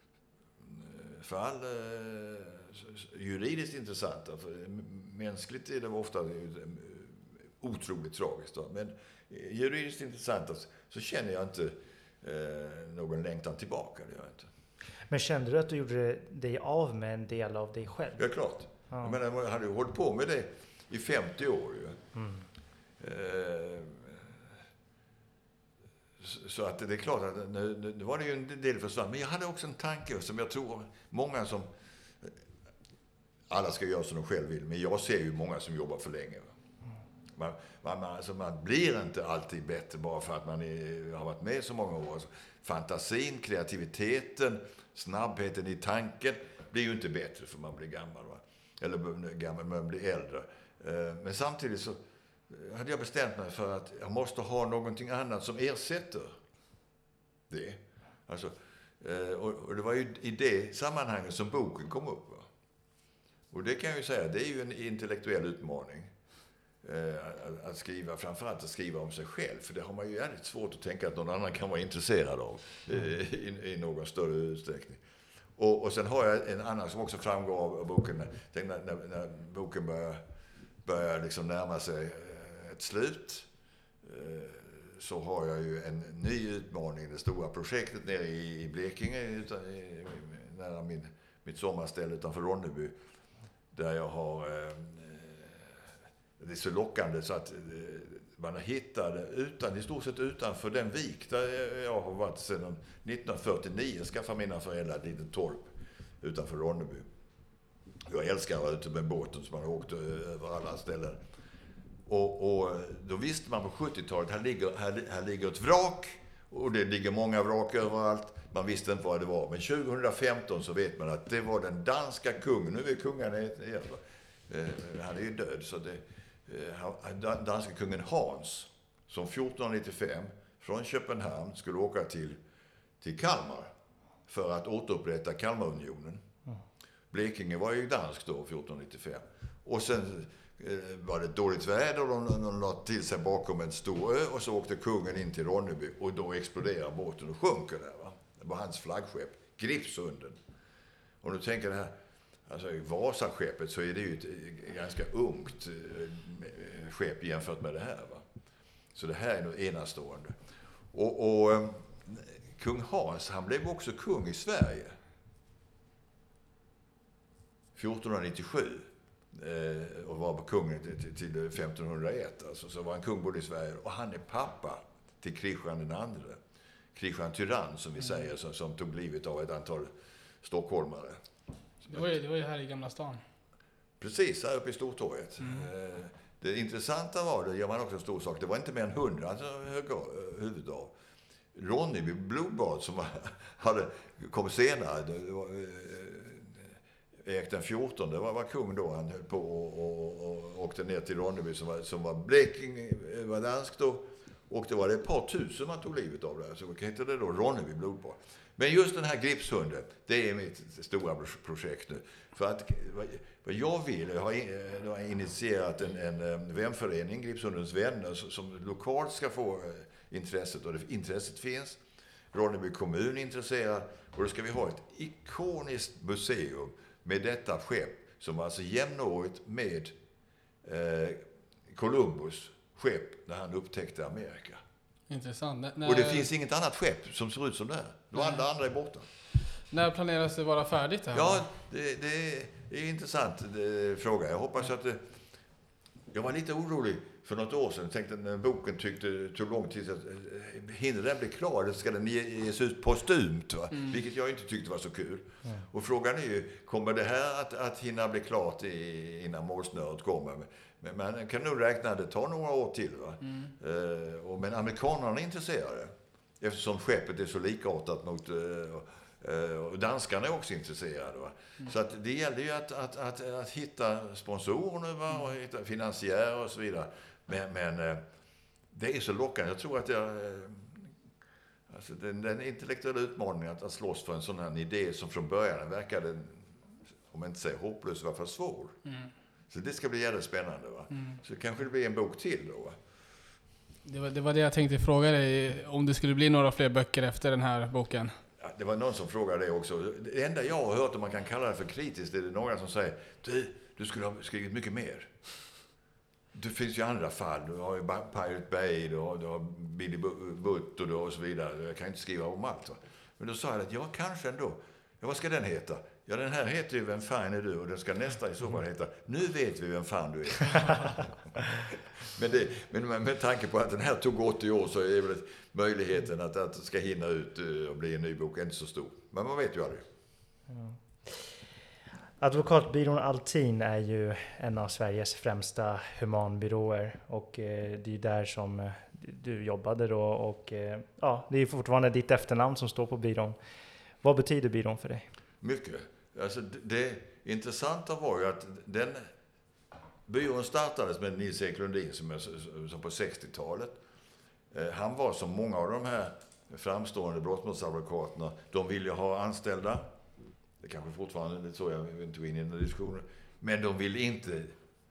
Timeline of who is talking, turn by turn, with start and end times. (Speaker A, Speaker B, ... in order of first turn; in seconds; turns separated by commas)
Speaker A: 0.6-14.5, Speaker B: 15.1-18.2, Speaker A: 18.2-21.9, Speaker B: 18.9-19.1, Speaker B: 22.1-22.4, Speaker A: 23.0-24.3, Speaker A: 26.2-31.7, Speaker A: 33.5-36.5, Speaker A: 37.3-56.4, Speaker A: 57.5-62.5, Speaker A: 63.5-66.1, Speaker A: 66.8-75.0, Speaker A: 75.6-80.2, Speaker A: 80.8-83.5, Speaker A: 84.0-92.9, Speaker A: 93.7-95.7, Speaker A: 96.4-107.1, Speaker A: 108.0-111.2, Speaker A: 112.1-132.4, Speaker A: 133.0-133.7, Speaker A: 134.3-136.2, Speaker A: 137.1-150.4, Speaker A: 151.2-151.9, Speaker A: 152.5-158.2, Speaker A: 158.9-160.3, Speaker A: 160.9-164.9, Speaker A: 167.7-176.4, Speaker A: 176.9-179.9, Speaker A: 180.4-181.2, Speaker C: 181.9-183.2, Speaker A: 184.0-190.9, Speaker C: 185.4-185.7, Speaker A: 191.5-196.7, Speaker A: 197.2-221.8, Speaker A: 222.3-229.9, Speaker A: 230.6-234.6, Speaker C: 235.1-236.2, Speaker A: 235.8-239.1, Speaker C: 239.7-241.4, Speaker A: 241.1-245.0, Speaker A: 246.1-278.0, Speaker A: 278.7-280.9, Speaker A: 281.7-286.5, Speaker A: 287.1-288.8, Speaker A: 289.5-292.8, Speaker C: 293.8-298.1, Speaker A: 298.4-305.1, Speaker A: 306.3-329.8, Speaker B: 330.5-331.2, Speaker B: 332.2-343.4, Speaker B: 344.0-345.1, Speaker A: 345.4-349.0, Speaker A: 350.1-353.8, Speaker A: 354.5-359.8, Speaker A: 360.6-364.5